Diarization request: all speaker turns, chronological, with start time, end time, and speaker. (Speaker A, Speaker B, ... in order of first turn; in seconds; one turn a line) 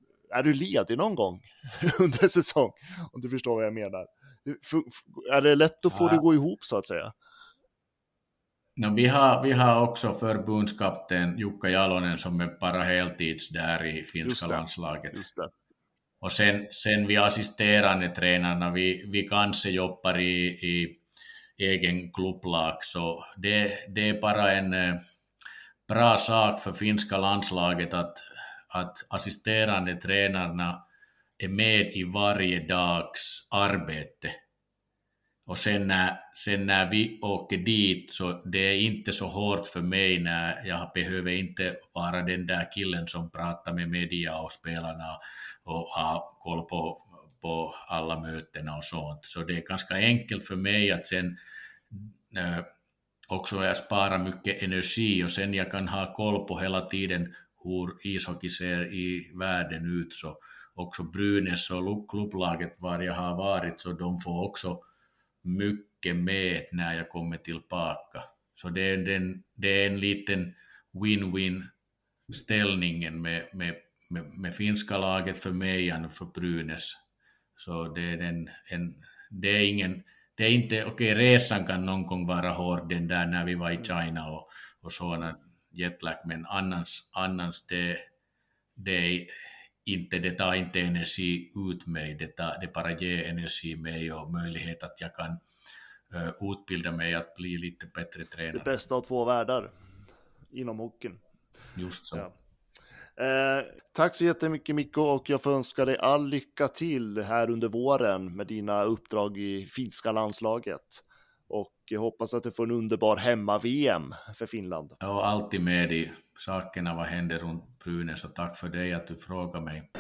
Speaker A: 0.3-7.1
Speaker B: 8.8-15.2
Speaker A: 14.2-15.5
Speaker B: 16.2-21.0
Speaker B: 21.6-25.0
Speaker B: 25.9-30.8
Speaker B: 31.4-34.3
Speaker B: 35.5-51.4
Speaker B: 51.9-52.7
Speaker B: 53.3-64.8
Speaker B: 65.4-71.7
Speaker B: 72.3-77.0
Speaker B: 77.6-88.1
Speaker B: 88.8-95.4
Speaker B: 96.1-98.7
Speaker A: 98.5-99.8
Speaker A: 100.5-101.2
Speaker B: 101.8-102.3
Speaker A: 103.2-115.0
Speaker B: 115.0-119.9